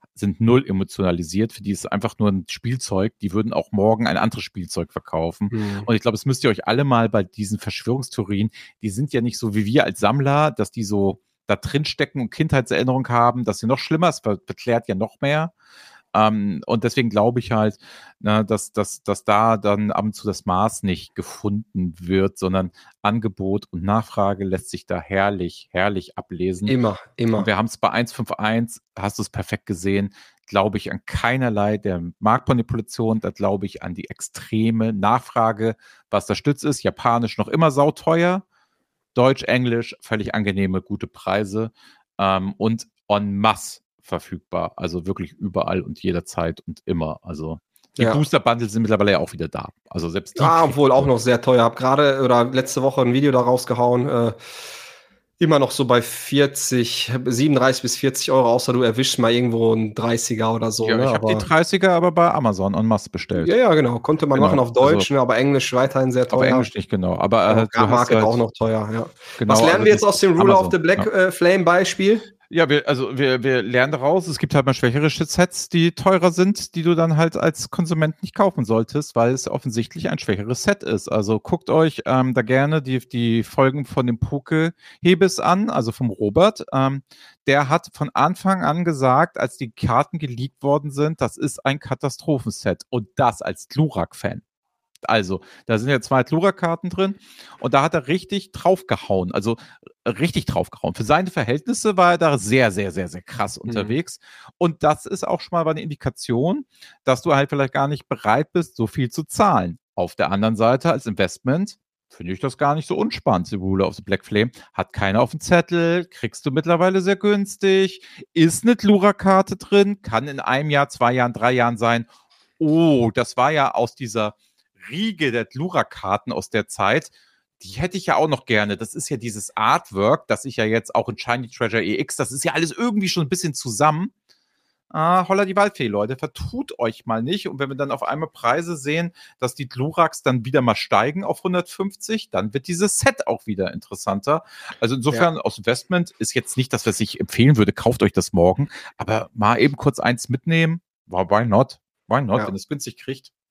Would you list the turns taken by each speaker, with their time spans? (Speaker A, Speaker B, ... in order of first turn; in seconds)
Speaker A: 0.1-15.5, 16.1-26.8, 27.4-38.4, 39.1-51.1, 60.8-63.5, 64.3-65.1, 66.3-68.4, 69.4-71.1, 72.5-94.4, 95.0-122.1, 122.6-134.1, 134.9-153.3
Speaker B: 5.5-5.9, 26.7-27.5, 50.4-54.4, 55.4-61.5, 63.4-66.7, 67.5-72.3, 103.7-104.0